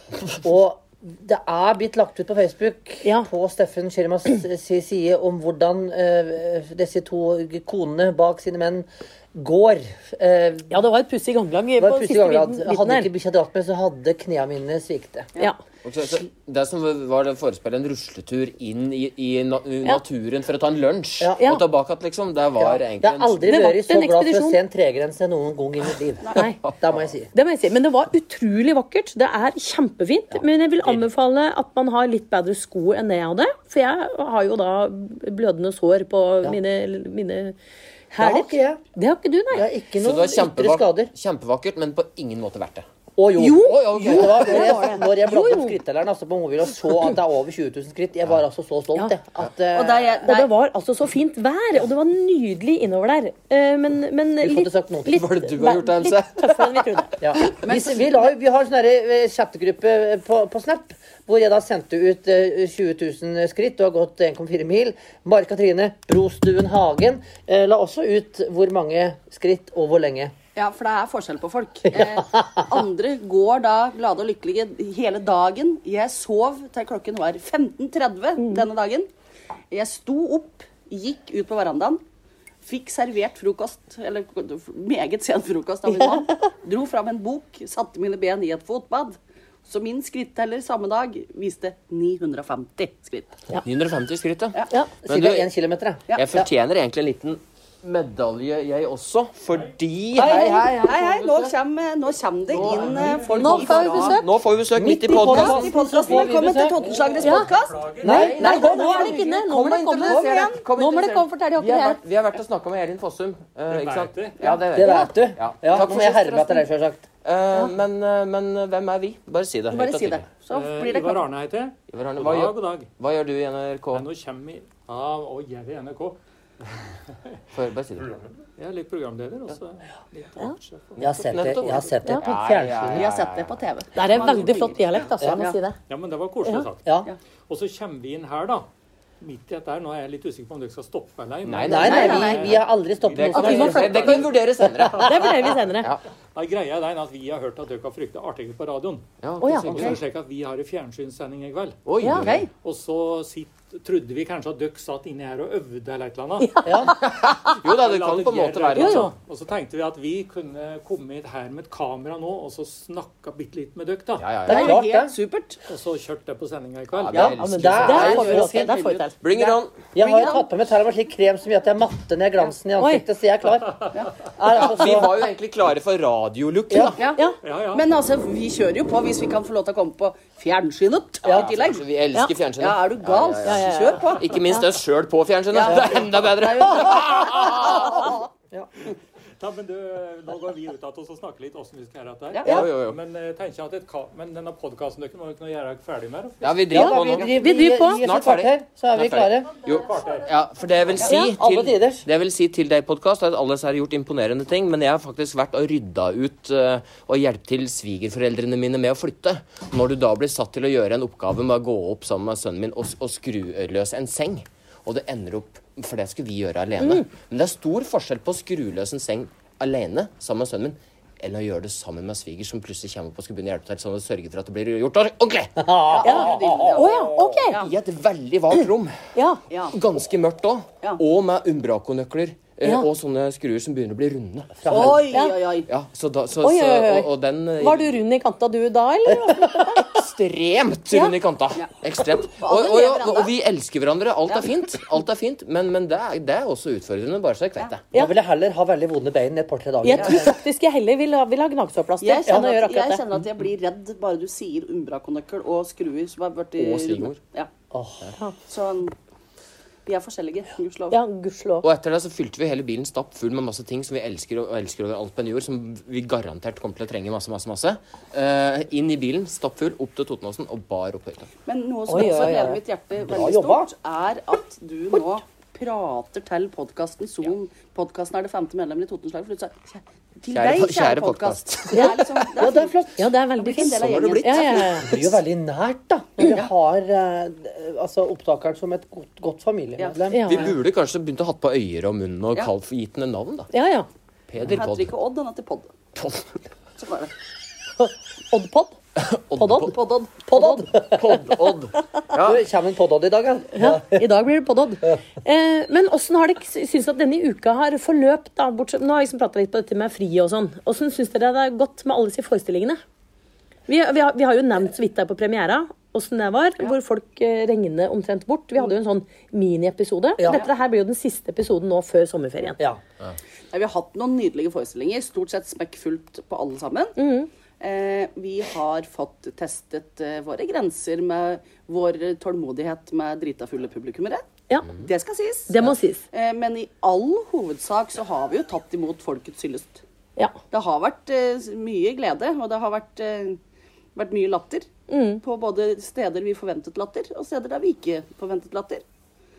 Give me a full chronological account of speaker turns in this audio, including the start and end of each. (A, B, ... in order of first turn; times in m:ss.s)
0:00.1-0:10.8 A
0:10.7-0:13.1 B
0:11.8-0:15.3 A
0:15.8-0:23.6 C
0:21.4-0:21.6 B
0:22.6-0:27.3 A
0:23.4-0:24.6 B
0:26.3-0:26.6 B
0:26.4-0:26.8 C
0:27.3-0:37.6 B
0:38.1-0:39.7 B
0:38.2-0:38.8 A
0:39.5-0:41.1 A
0:40.0-0:42.9 C
0:43.2-0:50.3 A
0:43.4-0:45.8 B
0:43.6-0:45.0 C
0:49.7-0:50.5 D
0:50.2-0:57.2 B
0:54.4-0:55.3 A
0:55.1-0:56.8 C
0:57.2-1:10.3 A
0:57.6-0:58.1 D
1:10.6-1:19.1 D
1:11.9-1:12.7 A
1:18.4-1:18.6 B
1:19.7-1:22.0 D
1:22.6-1:33.4 D
1:26.0-1:26.3 B
1:33.6-1:35.5 C
1:35.0-1:36.5 A
1:36.1-1:36.3 D
1:36.2-1:41.6 C
1:40.2-1:40.7 A
1:40.2-1:44.2 D
1:42.5-1:45.7 C
1:42.6-1:43.8 E
1:43.3-1:44.3 B
1:44.7-1:46.8 A
1:45.1-1:47.8 D
1:46.1-1:48.3 E
1:47.2-1:47.5 B
1:48.0-1:49.2 A
1:48.0-1:56.6 C
1:48.0-1:52.0 B
1:48.6-1:49.0 D
1:50.0-1:50.6 D
1:53.7-1:54.4 E
1:54.7-1:57.0 A
1:54.8-1:55.1 B
1:57.2-2:00.2 C
1:59.7-2:01.3 D
2:00.5-2:02.9 E
2:01.9-2:04.1 C
2:03.9-2:06.2 E
2:07.5-2:08.1 C
2:08.1-2:11.8 E
2:11.0-2:13.6 C
2:11.0-2:13.1 A
2:12.9-2:15.6 D
2:13.9-2:15.8 B
2:14.6-2:15.0 E
2:15.9-2:18.7 E
2:19.2-2:24.3 E
2:21.4-2:22.6 C
2:21.6-2:24.3 A
2:21.8-2:22.5 D
2:21.9-2:22.2 B
2:23.1-2:26.0 C
2:23.3-2:24.2 B
2:25.0-2:25.9 B
2:26.3-2:44.4 E
2:29.2-2:30.0 C
2:29.4-2:29.8 B
2:31.8-2:32.5 C
2:32.0-2:32.3 B
2:32.2-2:32.5 D
2:36.4-2:37.0 B
2:36.6-2:37.0 A
2:37.0-2:39.1 C
2:38.8-2:39.1 B
2:44.2-2:44.8 C
2:44.5-2:45.1 A
2:44.5-2:45.6 D
2:45.7-2:47.4 E
2:46.9-2:48.3 C
2:47.1-2:48.7 A
2:47.2-2:50.4 D
2:47.4-2:49.2 B
2:49.2-2:49.8 C
2:49.4-2:55.2 A
2:52.8-2:53.0 B
2:54.5-2:57.1 C
2:56.7-2:57.0 A
2:57.0-3:01.8 D
2:57.4-2:57.8 E
3:01.2-3:08.1 C
3:02.6-3:04.4 D
3:03.5-3:04.7 B
3:05.5-3:08.2 D
3:08.9-3:16.8 E
3:12.4-3:13.0 C
3:16.4-3:17.4 C
3:16.7-3:19.6 A
3:16.7-3:18.0 B
3:18.0-3:45.6 C
3:19.6-3:20.3 E
3:21.0-3:21.3 B
3:21.3-3:22.1 A
3:36.8-3:37.1 B
3:45.6-3:47.2 A
3:45.9-3:47.7 D
3:46.0-3:47.6 B
3:47.5-3:49.0 C
3:49.2-3:49.4 B
3:49.5-3:49.8 D
3:49.7-3:55.1 C
3:54.6-3:55.1 A
3:54.7-3:55.7 D
3:55.1-3:55.4 B
3:55.7-3:57.9 C
3:56.4-3:59.9 B
3:59.1-3:59.6 A
3:59.7-4:07.8 C
4:00.9-4:01.2 B
4:01.6-4:03.3 D
4:07.9-4:10.4 A
4:09.8-4:13.0 B
4:12.0-4:17.5 D
4:16.6-4:17.2 C
4:17.7-4:18.2 A
4:18.5-4:19.0 D
4:19.9-4:21.0 D
4:20.9-4:21.7 B
4:21.6-4:31.3 C
4:31.5-4:42.8 D
4:31.9-4:32.6 B
4:32.0-4:32.3 A
4:33.0-4:33.7 A
4:40.3-4:42.3 C
4:42.4-4:43.1 A
4:43.0-4:44.9 B
4:43.4-4:45.1 D
4:43.6-4:44.7 C
4:44.8-4:50.6 A
4:50.1-4:50.5 B
4:50.3-4:53.5 C
4:53.5-4:53.9 B
4:54.3-4:54.9 C
4:54.5-4:55.7 D
4:56.0-4:56.4 C
4:56.8-4:57.1 D
4:58.3-4:58.8 B
4:59.0-4:59.8 C
4:59.4-4:59.8 B
4:59.7-5:00.3 D
5:00.3-5:01.2 A
5:00.3-5:00.7 B
5:00.7-5:02.4 C
5:02.2-5:04.1 A
5:03.5-5:12.8 B
5:13.7-5:22.6 B
5:20.2-5:20.4 A
5:23.5-5:27.0 D
5:27.0-5:27.3 B
5:27.6-5:39.8 D
5:35.5-5:36.0 B
5:40.5-5:43.4 D
5:44.0-5:44.7 D
5:44.9-5:45.2 B
5:45.2-5:48.8 D